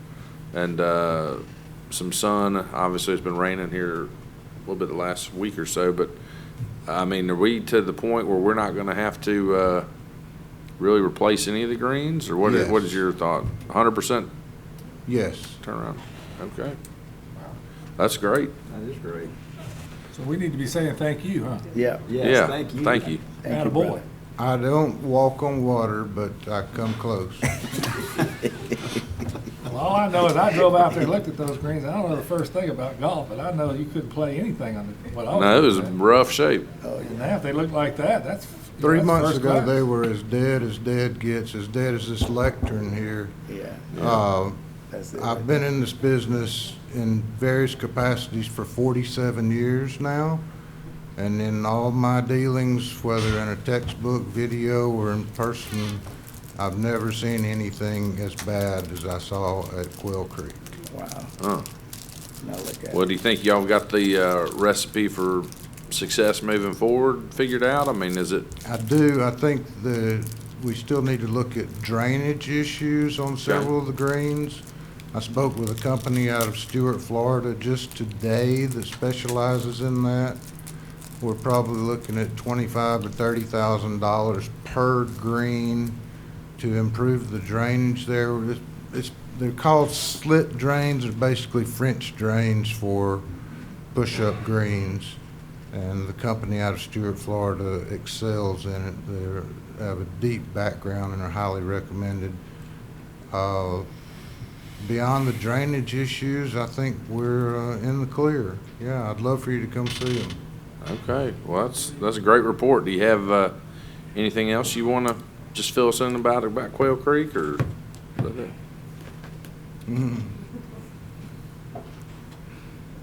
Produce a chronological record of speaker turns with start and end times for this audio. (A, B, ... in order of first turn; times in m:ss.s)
0:00.5-0:04.1 A
0:04.7-0:06.1 A
0:06.9-0:09.9 A
0:10.8-0:14.3 A
0:12.4-0:13.0 B
0:15.1-0:15.6 B
0:15.6-0:16.8 A
0:18.0-0:18.5 A
0:18.7-0:19.3 C
0:20.1-0:21.7 D
0:21.7-0:24.0 C
0:22.2-0:23.3 A
0:23.4-0:24.0 D
0:24.4-0:27.5 B
0:29.6-0:36.0 D
0:35.3-0:36.7 A
0:36.8-0:37.2 C
0:37.0-0:39.8 D
0:38.8-0:43.4 B
0:43.5-0:43.9 C
0:43.9-0:44.2 A
0:44.0-0:44.6 B
0:44.9-0:45.5 C
0:45.1-0:50.4 B
0:51.2-0:56.0 B
0:56.6-1:00.6 B
1:00.9-1:01.3 C
1:01.4-1:01.7 A
1:02.4-1:03.1 C
1:02.9-1:08.5 A
1:08.6-1:20.4 B
1:21.2-1:26.0 B
1:26.6-1:33.2 B
1:33.9-1:35.2 B
1:35.7-1:42.4 B
1:43.3-1:43.9 B
1:44.8-1:50.4 B
1:50.8-1:53.6 A
1:54.2-1:57.6 A
1:58.2-1:58.5 A
1:59.9-2:00.4 B